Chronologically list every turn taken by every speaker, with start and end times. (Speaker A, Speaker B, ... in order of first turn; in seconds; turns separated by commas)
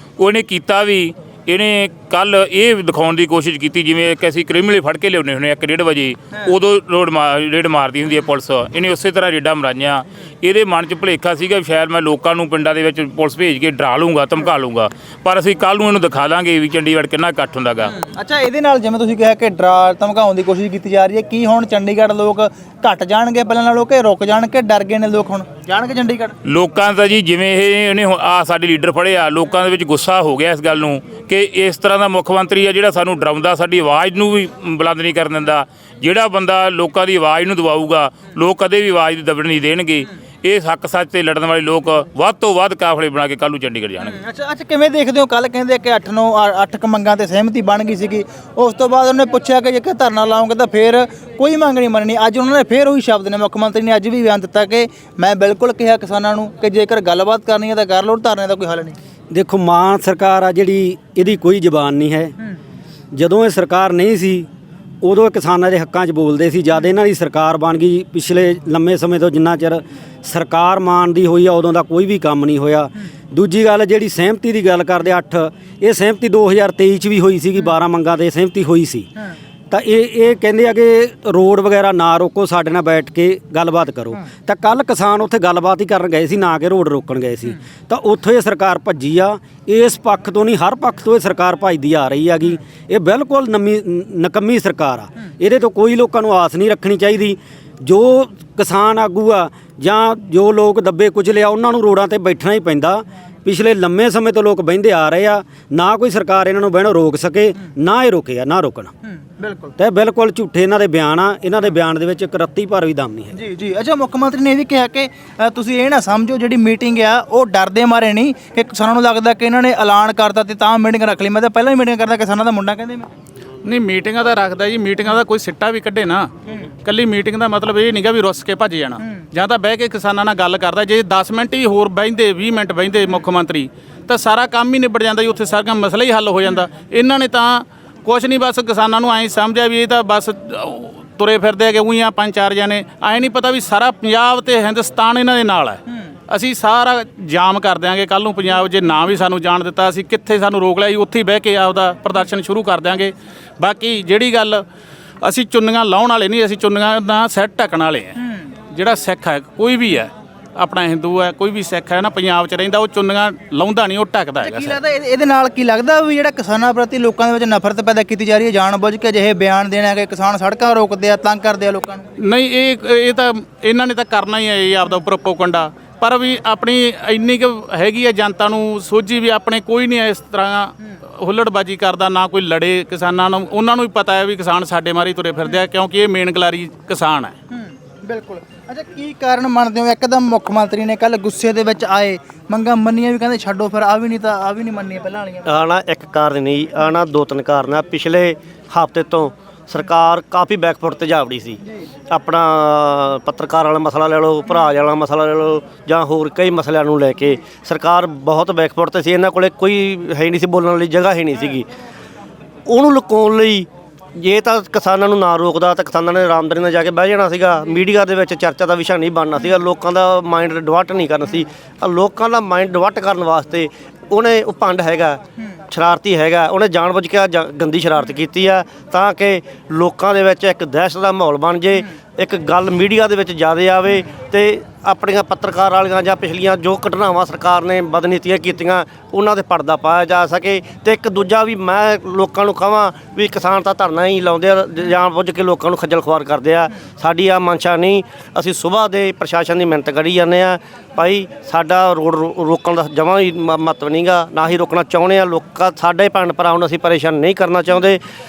Speaker A: 0.2-17.9, Speaker B: 17.9-26.3, Speaker A: 26.5-44.1, Speaker B: 44.0-59.0, Speaker C: 59.3-62.3, Speaker C: 63.1-64.5, Speaker C: 65.0-79.1, Speaker C: 79.7-108.9, Speaker B: 109.4-109.7, Speaker C: 109.8-113.3, Speaker B: 113.3-123.1, Speaker D: 123.7-126.3, Speaker D: 126.8-154.7, Speaker D: 155.2-158.2, Speaker D: 158.7-164.8, Speaker B: 164.4-172.1, Speaker D: 172.2-187.3, Speaker B: 187.5-195.5, Speaker E: 195.5-201.6, Speaker E: 202.1-211.7, Speaker E: 212.7-258.0